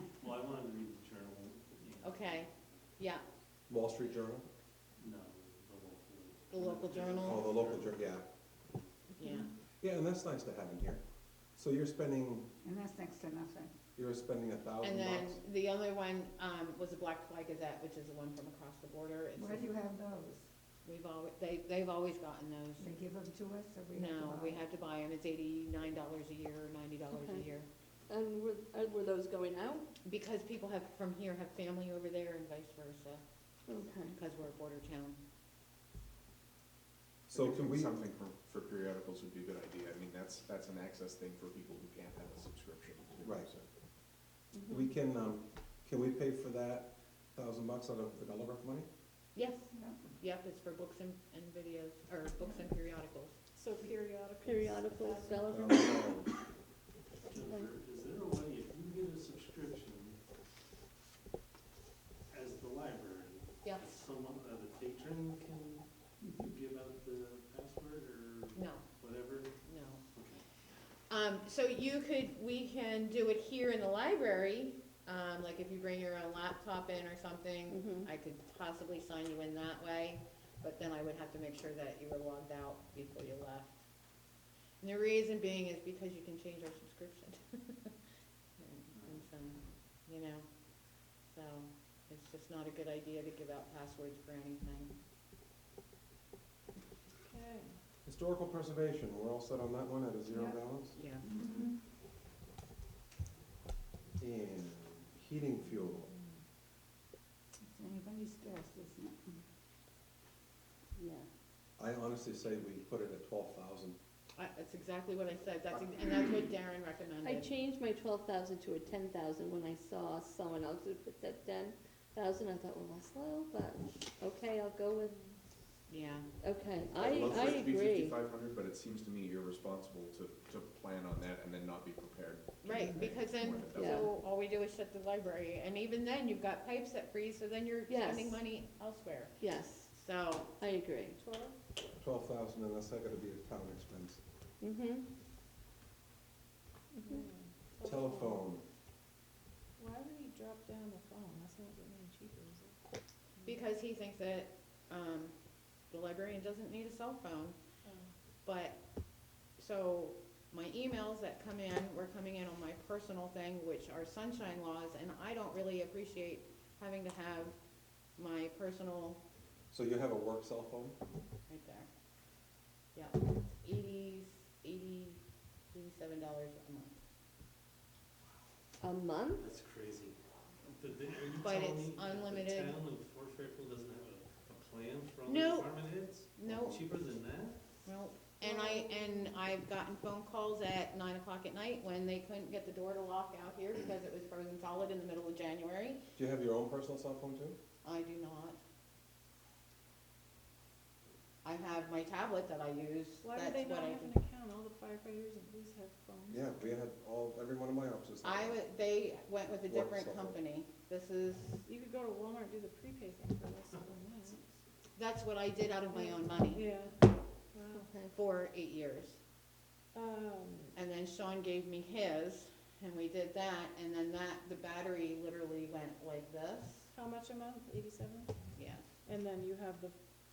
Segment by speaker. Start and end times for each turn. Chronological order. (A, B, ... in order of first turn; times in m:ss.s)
0:00.2-0:02.7 A
0:02.0-0:03.2 B
0:03.7-0:04.5 C
0:05.0-0:08.0 A
0:06.5-0:07.5 B
0:07.2-0:08.3 C
0:09.2-0:09.5 B
0:09.8-0:11.0 C
0:11.6-0:12.5 C
0:12.6-0:13.7 D
0:14.0-0:15.4 C
0:14.8-0:19.7 B
0:19.4-0:20.4 D
0:20.8-0:22.9 B
0:22.8-0:24.7 D
0:23.9-0:27.7 B
0:27.1-0:27.4 E
0:28.1-0:29.9 E
0:30.0-0:33.2 B
0:33.7-0:34.2 E
0:34.2-0:35.2 B
0:37.3-0:43.7 F
0:37.3-0:38.0 C
0:43.2-0:43.5 C
0:44.6-0:44.9 E
0:44.7-0:48.9 C
0:49.4-0:53.3 B
0:49.7-0:50.0 D
0:53.6-0:55.8 G
0:54.4-0:56.3 E
0:55.5-0:56.3 C
0:57.3-1:00.2 A
1:02.3-1:09.5 A
1:03.6-1:04.0 B
1:06.2-1:06.5 D
1:08.6-1:08.8 B
1:09.6-1:10.0 B
1:10.1-1:10.4 A
1:11.1-1:23.8 B
1:17.7-1:18.1 E
1:24.8-1:27.9 B
1:28.6-1:30.5 B
1:31.3-1:34.9 B
1:37.2-1:37.8 G
1:38.1-1:41.0 C
1:40.3-1:40.6 D
1:41.0-1:41.3 B
1:41.2-1:41.7 D
1:44.2-1:46.1 C
1:47.7-1:49.3 D
1:51.0-1:51.3 E
1:51.8-1:54.0 C
1:54.4-1:57.5 B
1:57.2-2:05.2 E
2:05.9-2:06.3 B
2:06.4-2:08.2 E
2:06.9-2:14.1 F
2:12.6-2:19.4 B
2:13.7-2:14.1 E
2:17.9-2:18.4 E
2:19.4-2:19.9 E
2:19.9-2:20.6 B
2:20.6-2:21.2 E
2:21.2-2:21.6 G
2:22.0-2:24.2 C
2:24.6-2:25.1 E
2:27.0-2:27.2 E
2:27.0-2:28.4 G
2:27.8-2:28.6 C
2:29.8-2:32.8 G
2:33.4-2:35.4 B
2:35.9-2:37.6 B
2:37.8-2:38.1 G
2:38.4-2:38.8 B
2:39.6-2:47.6 B
2:48.2-2:49.2 B
2:49.7-2:51.0 C
2:51.5-2:51.9 B
2:53.0-2:55.2 B
2:55.7-2:57.0 B
2:58.8-2:59.4 E
2:59.4-3:00.2 A
3:00.8-3:07.6 A
3:01.4-3:02.8 B
3:05.3-3:05.7 B
3:06.4-3:06.8 B
3:07.9-3:16.0 B
3:08.4-3:09.5 G
3:16.2-3:17.6 C
3:17.8-3:18.6 B
3:21.4-3:24.1 B
3:23.2-3:26.4 G
3:26.3-3:28.6 C
3:28.2-3:31.6 B
3:29.7-3:30.4 C
3:31.6-3:34.4 G
3:35.0-3:36.7 B
3:35.9-3:37.9 G
3:37.7-3:38.1 E
3:38.1-3:39.2 B
3:39.9-3:40.8 G
3:40.8-3:46.9 B
3:46.9-3:50.0 G
3:48.6-3:48.9 B